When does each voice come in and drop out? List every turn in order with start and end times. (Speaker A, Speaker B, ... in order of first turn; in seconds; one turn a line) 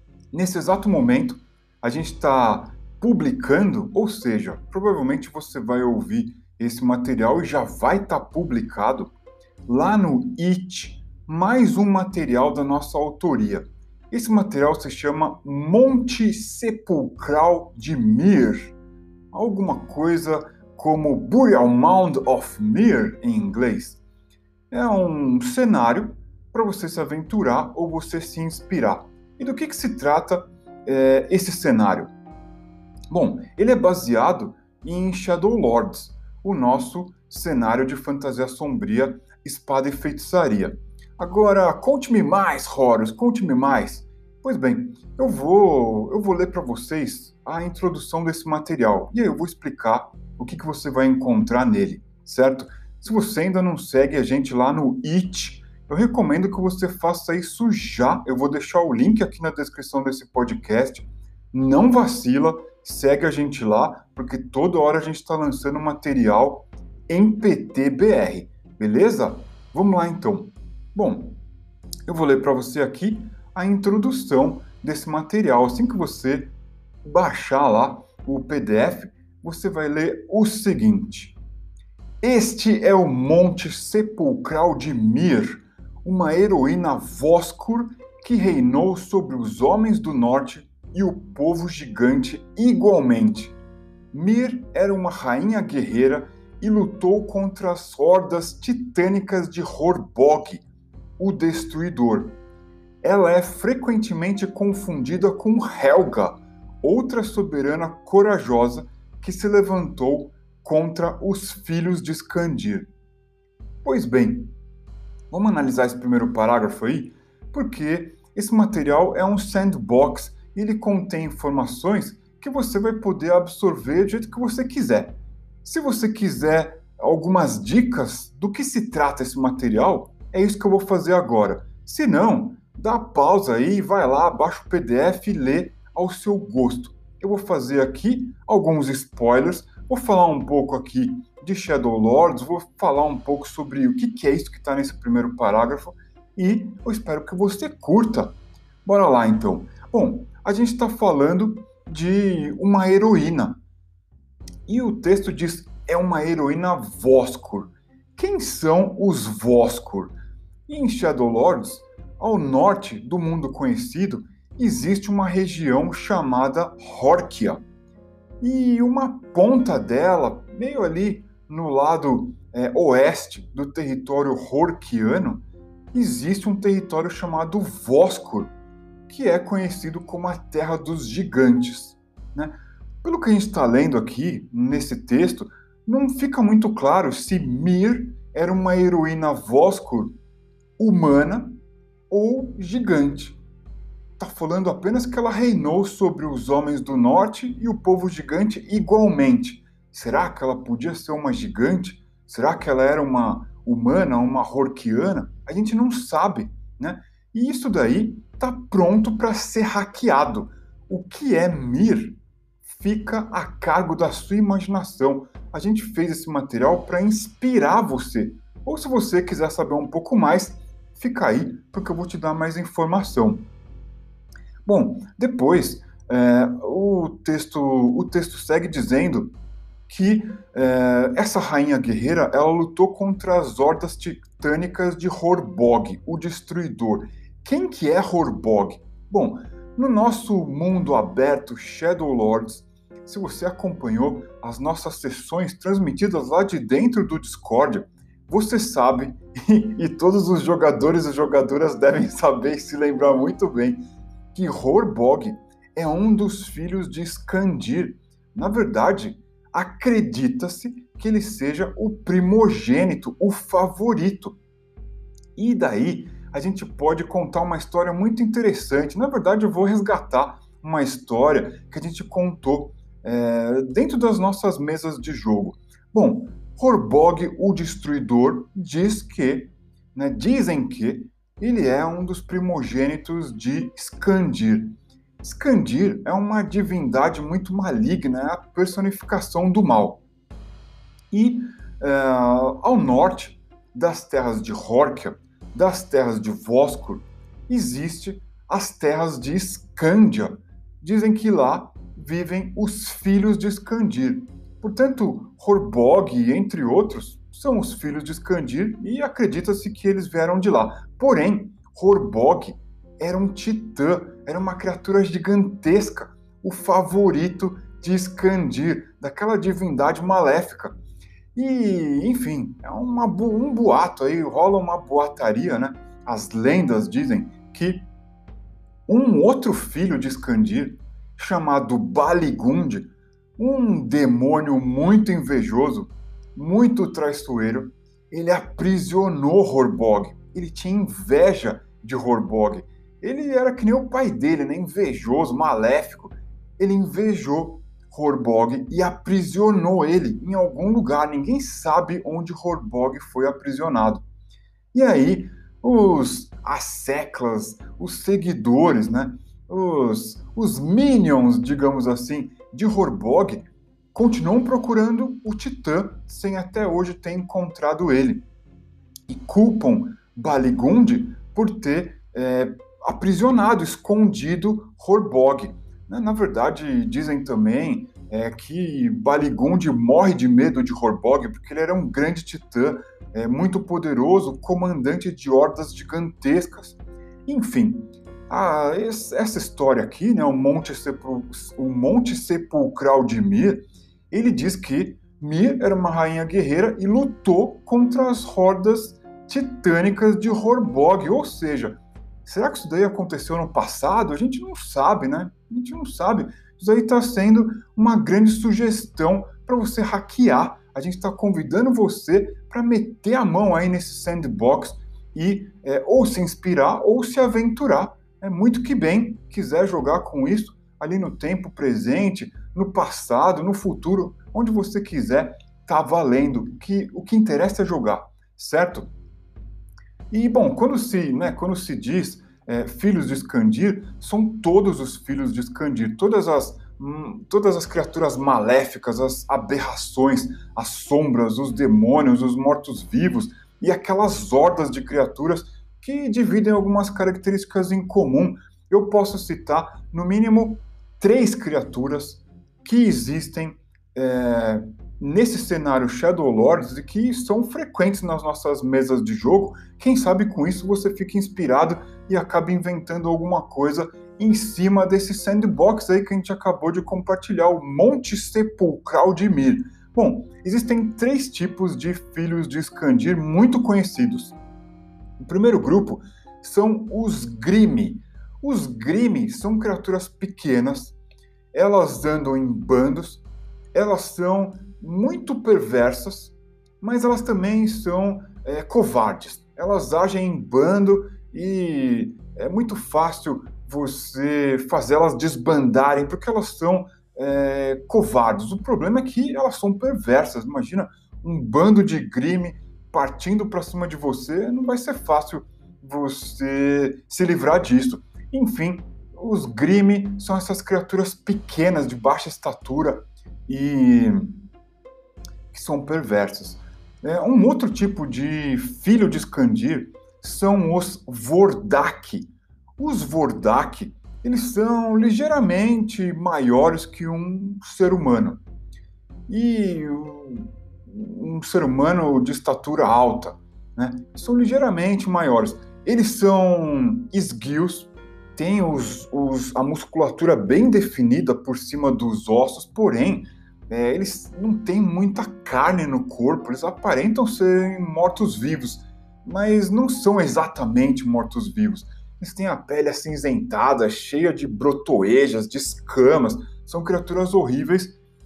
Speaker A: 0.3-9.1
Speaker A: 9.7-18.7
Speaker A: 19.3-24.0
Speaker A: 24.7-32.1
Speaker A: 33.1-71.4
Speaker A: 72.1-81.4
Speaker A: 82.2-93.5
Speaker A: 94.1-100.6
Speaker A: 101.2-102.4
Speaker A: 103.0-112.9
Speaker A: 113.8-114.5
Speaker A: 115.3-153.6
Speaker A: 154.7-160.1
Speaker A: 160.7-167.6
Speaker A: 168.4-178.5
Speaker A: 179.1-190.2
Speaker A: 190.8-191.6
Speaker A: 192.1-193.4
Speaker A: 194.2-223.5
Speaker A: 224.7-229.3
Speaker A: 229.9-264.4
Speaker A: 265.4-290.0
Speaker A: 291.1-320.8
Speaker A: 321.3-327.9
Speaker A: 328.9-354.0
Speaker A: 354.7-368.2
Speaker A: 369.1-428.9
Speaker A: 430.1-474.4
Speaker A: 475.2-481.0
Speaker A: 481.5-514.4
Speaker A: 515.5-528.4
Speaker A: 529.3-558.0